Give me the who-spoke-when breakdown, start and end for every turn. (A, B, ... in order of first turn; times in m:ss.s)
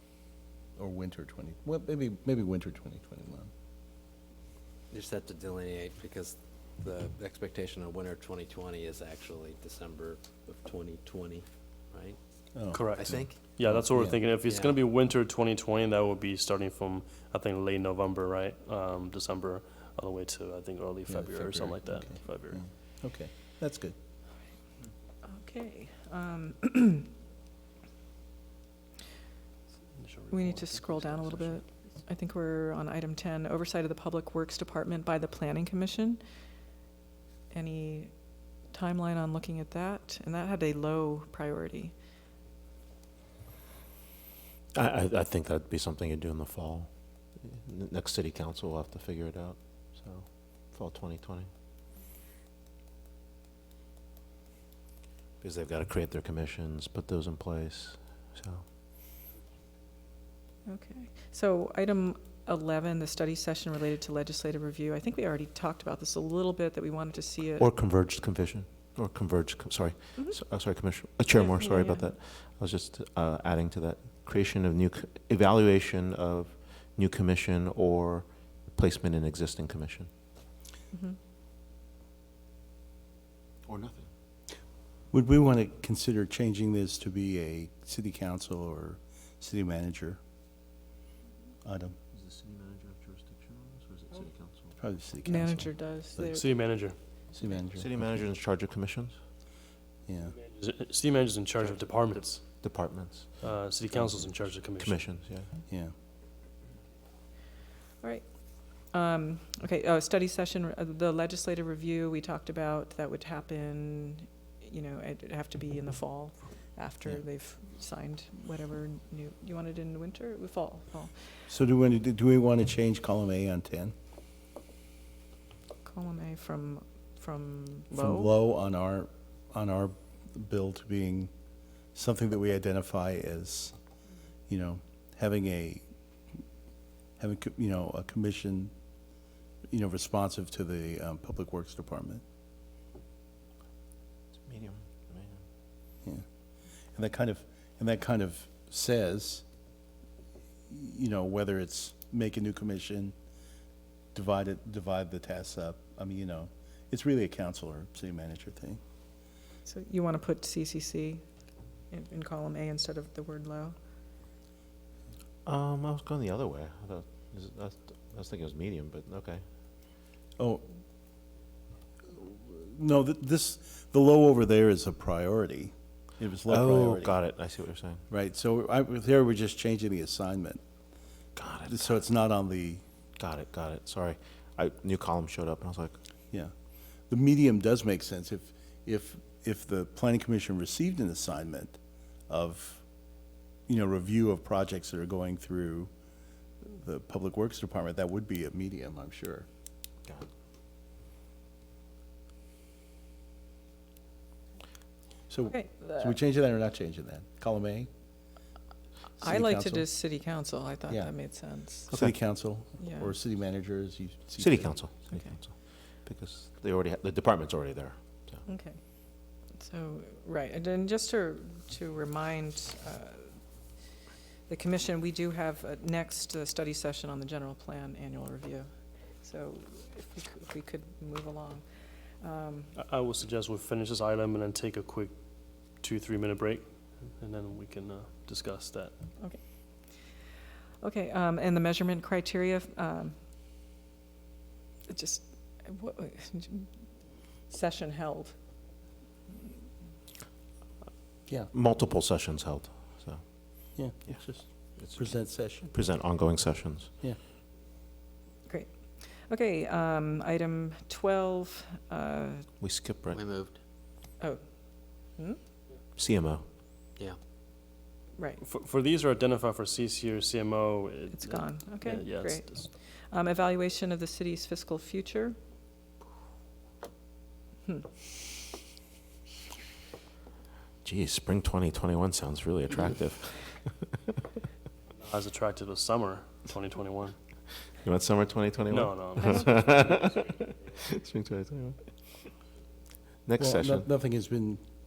0:00.8-0:03.5 A
0:04.9-0:12.2 B
0:12.5-0:14.2 A
0:12.7-0:22.6 C
0:14.5-0:14.7 B
0:21.1-0:23.9 A
0:25.2-0:27.1 D
0:30.0-0:31.7 C
0:30.3-0:36.2 D
0:37.5-0:41.9 D
0:44.7-0:51.5 E
0:55.4-0:58.6 E
1:00.6-1:07.7 D
1:07.6-1:20.1 E
1:11.3-1:12.1 D
1:23.6-1:24.1 E
1:25.1-1:30.2 A
1:31.6-1:32.0 A
1:32.1-1:34.7 E
1:34.8-1:36.4 A
1:35.2-1:36.5 D
1:36.3-1:37.0 C
1:37.3-1:37.9 A
1:37.7-1:39.2 E
1:40.1-1:40.4 A
1:40.5-1:42.5 C
1:42.6-1:45.5 E
1:43.4-1:45.0 C
1:48.0-2:01.2 D
2:01.5-2:03.9 A
2:05.8-2:08.3 D
2:07.9-2:11.3 A
2:11.9-2:13.7 A
2:14.5-2:15.9 A
2:17.2-2:18.7 A
2:19.7-2:22.2 A
2:24.4-2:25.4 E
2:26.9-2:29.4 A
2:30.7-2:33.1 A
2:34.1-2:38.8 A
2:39.6-2:41.2 D
2:41.9-2:43.8 D
2:45.4-2:49.4 E
2:50.4-2:50.6 A
2:52.1-2:57.2 A
2:56.5-2:58.0 E
2:58.1-3:00.6 A
3:01.4-3:02.0 E
3:01.7-3:02.8 A
3:03.2-3:06.0 E
3:07.1-3:12.8 A
3:13.7-3:15.9 A
3:16.6-3:19.4 A
3:25.3-3:27.9 A
3:25.5-3:26.2 D
3:29.2-3:29.9 A
3:29.2-3:31.9 D
3:30.9-3:31.2 A
3:31.7-3:34.7 A
3:32.8-3:33.1 D
3:34.4-3:38.4 E
3:35.1-3:35.4 D
3:38.4-3:38.8 D
3:39.5-3:43.4 D
3:44.5-3:51.7 D
3:52.2-3:52.7 D
3:52.7-3:55.1 C
3:55.8-3:58.9 C
4:00.8-4:03.1 D
4:04.9-4:06.8 D
4:07.5-4:08.4 D
4:11.5-4:14.2 E
4:13.8-4:15.7 A
4:14.8-4:16.9 E
4:18.5-4:22.5 D
4:22.6-4:23.2 E
4:24.2-4:25.4 D
4:26.0-4:26.4 E
4:28.4-4:32.7 C
4:31.2-4:35.4 D
4:40.8-4:43.9 E
4:45.0-4:47.2 C
4:47.8-4:52.3 E
4:48.7-4:49.9 C
4:49.2-4:49.6 D
4:53.2-4:53.9 E
4:53.4-4:54.6 A